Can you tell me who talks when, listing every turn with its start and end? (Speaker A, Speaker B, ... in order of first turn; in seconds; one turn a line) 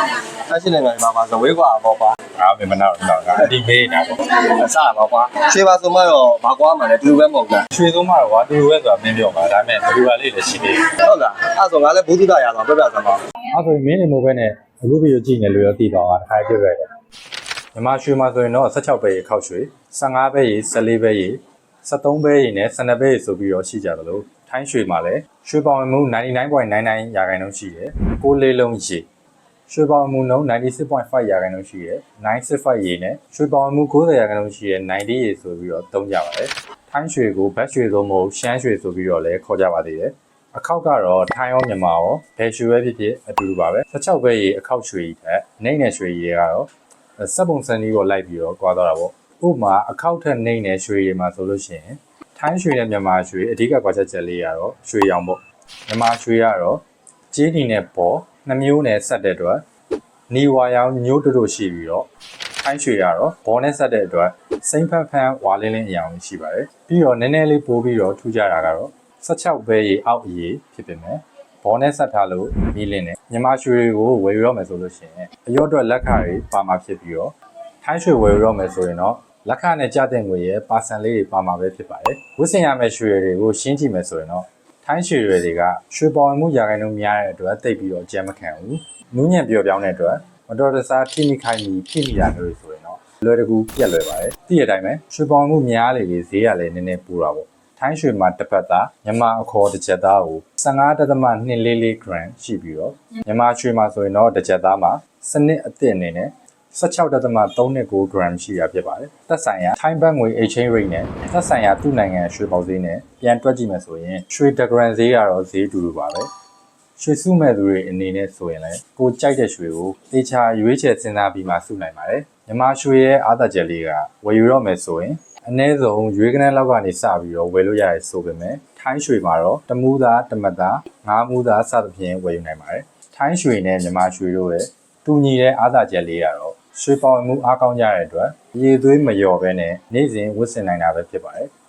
Speaker A: 0.5-2.2
Speaker B: 2.3-4.2
Speaker A: 4.3-7.6
Speaker B: 7.7-10.9
Speaker A: 11.0-13.2
Speaker B: 13.5-16.9
Speaker B: 17.7-29.1
Speaker B: 29.7-59.6
Speaker B: 60.3-116.3
Speaker B: 117.0-141.5